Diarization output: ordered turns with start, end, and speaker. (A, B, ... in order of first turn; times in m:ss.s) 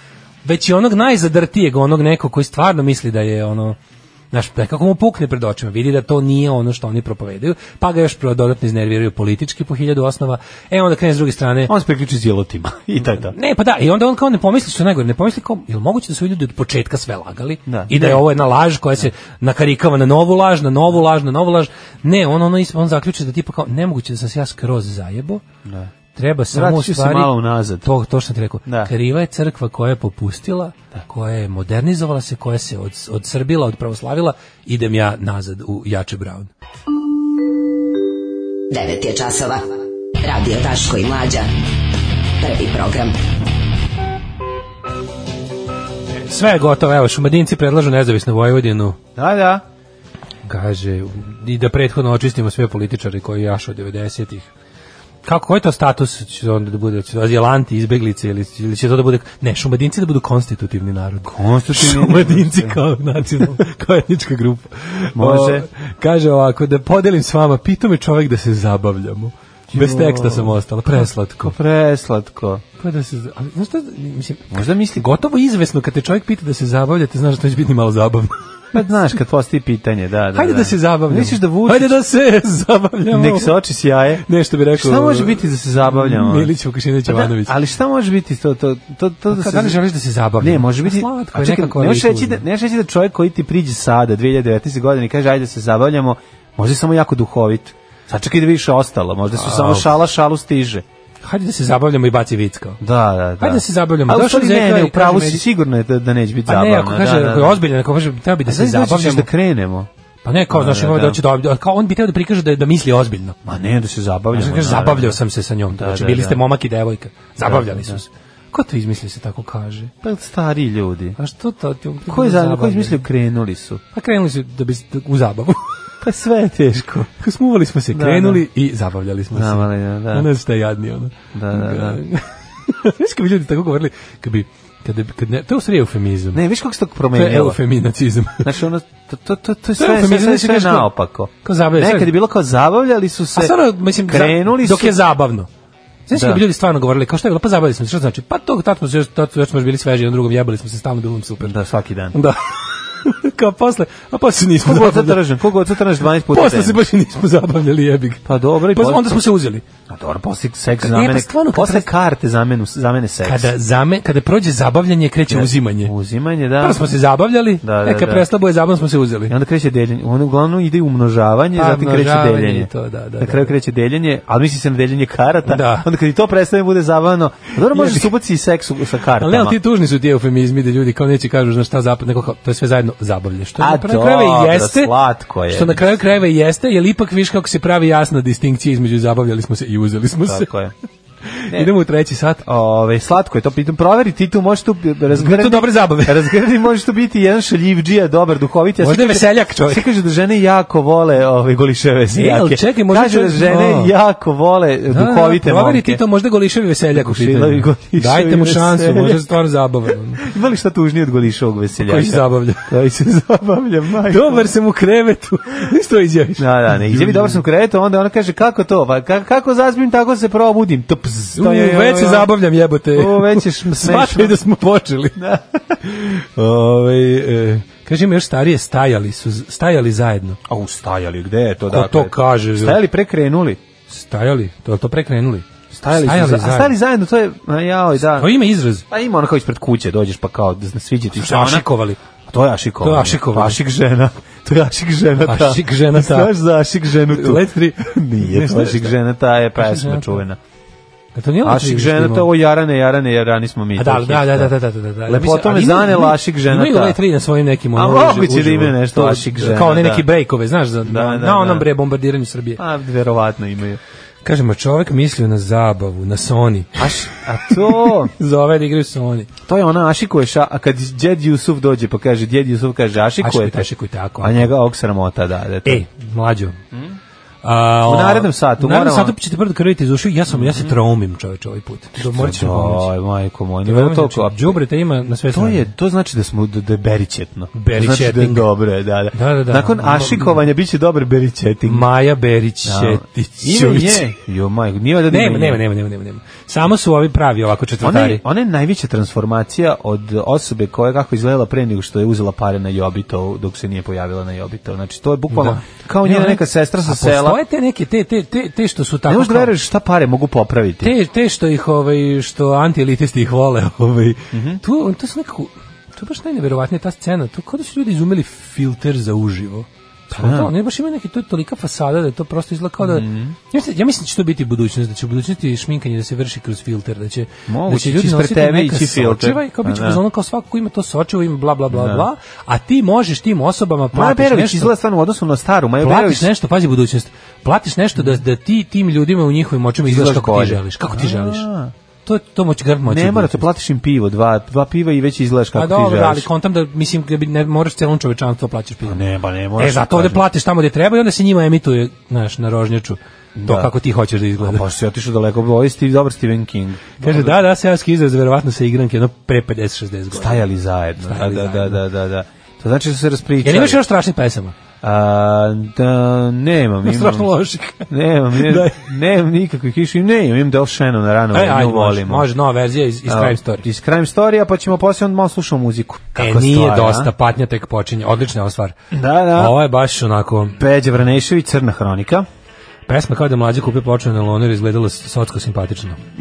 0:00.4-0:03.8 A
0:04.3-0:11.7 A
0:11.7-0:13.4 B
0:13.3-0:25.4 A
0:17.7-0:18.2 B
0:25.6-0:25.9 B
0:26.2-0:36.5 A
0:26.5-0:27.9 B
0:28.7-0:28.9 B
0:38.7-0:39.6 C
0:40.2-0:41.5 C
0:42.4-0:43.2 C
0:46.1-0:49.0 A
0:49.2-0:49.6 B
0:50.4-0:54.5 A
0:55.2-1:11.5 A
1:01.2-1:02.8 B
1:05.2-1:05.7 B
1:09.7-1:12.6 B
1:12.8-1:18.4 A
1:14.5-1:15.1 B
1:18.7-1:22.0 B
1:20.3-1:23.6 A
1:23.1-1:26.5 B
1:24.2-1:27.5 A
1:27.1-1:29.8 B
1:29.3-1:32.4 A
1:30.4-1:40.8 B
1:39.3-1:39.9 A
1:41.2-1:42.8 A
1:42.8-1:47.6 B
1:43.4-1:45.4 A
1:46.5-1:49.3 A
1:48.4-1:49.9 B
1:50.2-1:53.4 A
1:50.5-1:51.2 B
1:53.5-1:55.2 B
1:54.3-1:59.9 A
1:55.7-1:56.4 B
1:57.4-1:58.0 B
2:00.0-2:01.2 B
2:01.2-2:03.0 A
2:02.1-2:03.8 B
2:03.9-2:05.7 A
2:06.0-2:07.1 B
2:07.1-2:16.4 A
2:07.9-2:08.4 B
2:09.3-2:10.3 B
2:11.3-2:12.0 B
2:16.3-2:17.6 B
2:17.2-2:18.5 A
2:18.4-2:25.0 B
2:19.8-2:20.9 A
2:21.4-2:22.1 A
2:23.4-2:25.5 A
2:26.1-2:31.5 A
2:26.1-2:26.4 B
2:31.4-2:32.2 B
2:32.1-2:35.2 A
2:34.6-2:36.8 B
2:36.3-2:39.6 A
2:38.2-2:39.2 B
2:39.9-2:43.5 B
2:40.8-2:41.9 A
2:43.2-2:45.9 A
2:45.3-2:46.9 B
2:46.6-2:49.3 A
2:47.6-2:48.3 B
2:49.3-2:52.7 B
2:51.6-2:53.5 A
2:53.2-2:59.6 B
2:55.5-2:55.9 A
2:57.7-2:58.1 A
2:59.2-3:04.9 A
3:03.6-3:05.8 B
3:05.5-3:10.5 A
3:10.3-3:10.7 B
3:11.3-3:12.4 A
3:12.4-3:26.0 B
3:15.1-3:16.3 A
3:18.8-3:19.8 A
3:22.1-3:23.9 A
3:24.9-3:30.3 A
3:26.9-3:29.4 B
3:30.2-3:34.5 B
3:31.8-3:32.7 A
3:34.1-3:37.4 A
3:36.4-3:42.3 B
3:41.4-3:45.2 A
3:43.0-3:44.4 B
3:45.2-3:45.8 B
3:45.8-3:50.4 A
3:46.4-3:46.8 B
3:50.5-3:53.6 B
3:51.7-3:52.8 A
3:53.9-3:56.8 A
3:55.7-3:58.4 B
3:58.0-3:58.8 A
3:58.9-4:01.7 B
4:01.2-4:02.0 A
4:02.3-4:10.4 B
4:02.8-4:03.6 A
4:05.2-4:06.3 A
4:07.1-4:08.9 A
4:09.6-4:10.2 A
4:11.2-4:12.3 A
4:11.4-4:14.5 B
4:13.8-4:22.6 A
4:15.1-4:17.0 B
4:17.8-4:20.1 B
4:20.8-4:21.7 B
4:22.6-4:23.8 B
4:24.2-4:26.9 A
4:26.8-4:28.1 B
4:27.5-4:29.3 A
4:29.4-4:33.7 B
4:33.2-4:34.5 A
4:34.2-4:35.8 B
4:35.6-4:36.6 A
4:36.7-4:37.0 B
4:37.4-4:42.9 A
4:37.9-4:39.2 B
4:40.3-4:40.8 B
4:42.0-4:44.6 B
4:43.6-4:45.7 A
4:45.3-4:51.9 B
4:47.5-4:48.5 A
4:49.1-4:50.4 A
4:51.7-4:54.1 A
4:52.6-4:55.6 B
4:55.1-4:58.2 A
4:57.8-5:07.4 B
5:05.3-5:09.5 A
5:09.1-5:10.9 B
5:10.8-5:34.7 A
5:14.3-5:14.6 B
5:20.1-5:20.5 B
5:22.8-5:23.4 B
5:27.5-5:30.0 B
5:31.7-5:32.1 B
5:33.9-5:36.3 B
5:35.8-5:41.5 A
5:39.8-5:41.7 B
5:42.1-5:43.4 A
5:42.9-5:46.3 B
5:45.6-5:49.0 A
5:48.8-5:50.2 B
5:49.6-5:54.6 A
5:53.4-5:53.7 B
5:54.4-5:57.4 B
5:57.0-6:00.4 A
6:00.1-6:03.8 B
6:01.0-6:01.8 A
6:03.4-6:04.6 A
6:04.8-6:07.3 B
6:06.8-6:08.8 A
6:07.9-6:12.3 B
6:11.3-6:13.7 A
6:13.1-6:17.1 B
6:16.2-6:18.8 A
6:18.9-6:19.6 B
6:19.4-6:20.6 A
6:20.6-6:22.2 B
6:22.9-6:26.0 A